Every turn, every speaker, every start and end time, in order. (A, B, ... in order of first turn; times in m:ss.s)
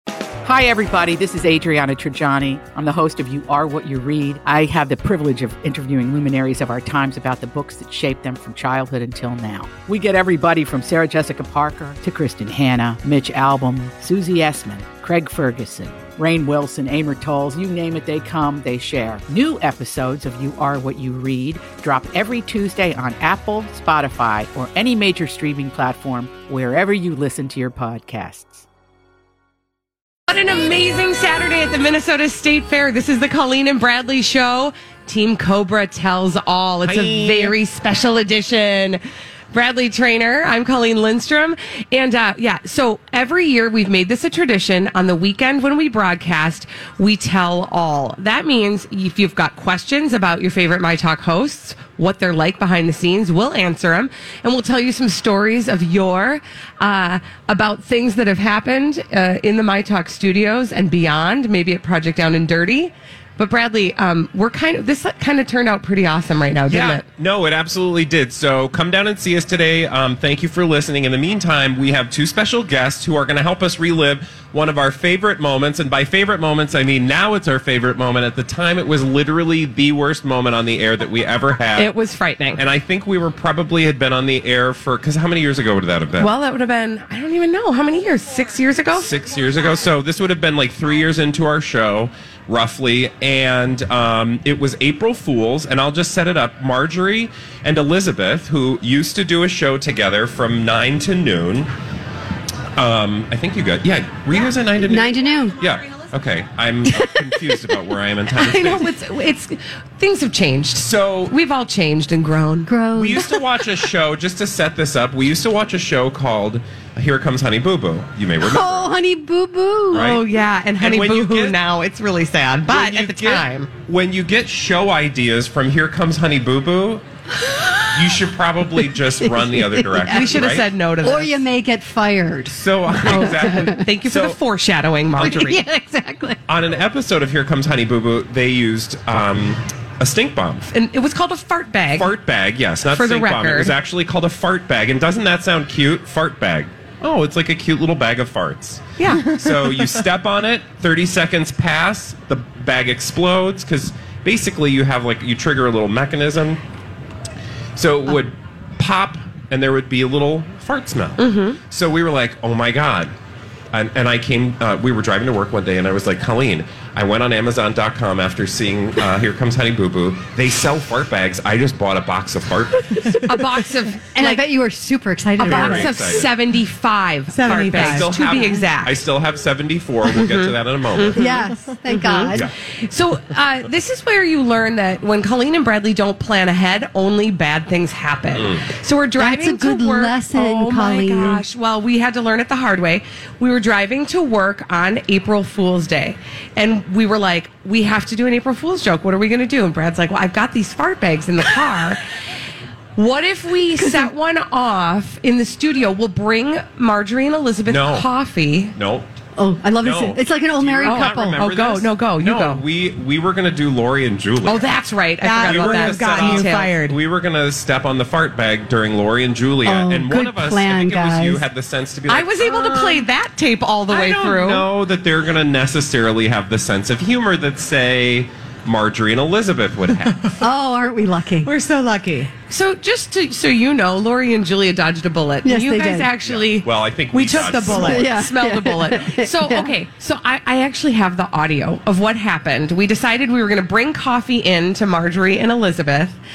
0:00.4-0:28.7 A
0:30.3-0:39.0 B
0:36.8-0:37.6 C
0:39.5-1:07.0 B
1:06.7-1:21.9 C
1:21.8-1:22.6 B
1:22.6-1:26.3 C
1:26.2-1:29.1 B
1:29.0-1:41.7 C
1:42.8-1:48.9 C
1:44.8-1:45.6 D
1:47.0-1:47.5 D
1:48.4-1:52.7 B
1:50.8-1:51.3 C
1:52.7-1:53.4 D
1:52.9-1:58.9 C
1:58.4-2:00.1 D
1:59.9-2:00.2 C
1:59.9-2:03.7 B
2:00.8-2:01.6 C
2:02.7-2:07.0 C
2:07.9-2:10.7 C
2:09.2-2:10.4 D
2:10.1-2:11.4 B
2:11.0-2:13.9 D
2:12.5-2:14.4 C
2:13.1-2:15.6 B
2:15.2-2:16.4 D
2:16.5-2:20.7 C
2:20.7-2:22.1 B
2:22.0-2:36.6 C
2:22.9-2:23.7 B
2:29.0-2:29.3 B
2:37.8-2:43.1 C
2:41.2-2:41.6 B
2:43.7-2:53.2 C
2:53.2-2:54.4 B
2:54.1-2:56.0 D
2:55.4-2:59.0 B
2:55.4-2:56.3 C
2:57.3-2:58.1 E
2:57.5-3:01.2 C
2:58.3-2:58.6 D
3:00.1-3:01.2 B
3:01.2-3:02.5 D
3:01.9-3:22.0 B
3:08.3-3:08.6 C
3:09.2-3:11.4 D
3:23.0-3:28.8 B
3:27.7-3:28.1 C
3:28.8-3:29.1 C
3:29.4-3:31.4 D
3:29.8-3:34.7 C
3:30.8-3:32.6 B
3:34.5-3:36.7 B
3:35.2-3:37.0 E
3:35.4-3:42.5 C
3:39.6-3:41.4 D
3:42.1-3:44.7 B
3:43.9-3:50.3 C
3:50.4-3:51.5 D
3:51.4-3:52.3 E
3:52.5-3:56.7 B
3:55.4-3:56.1 D
3:56.2-3:58.1 C
3:57.1-3:58.1 E
3:57.4-4:06.1 B
3:57.8-3:59.7 D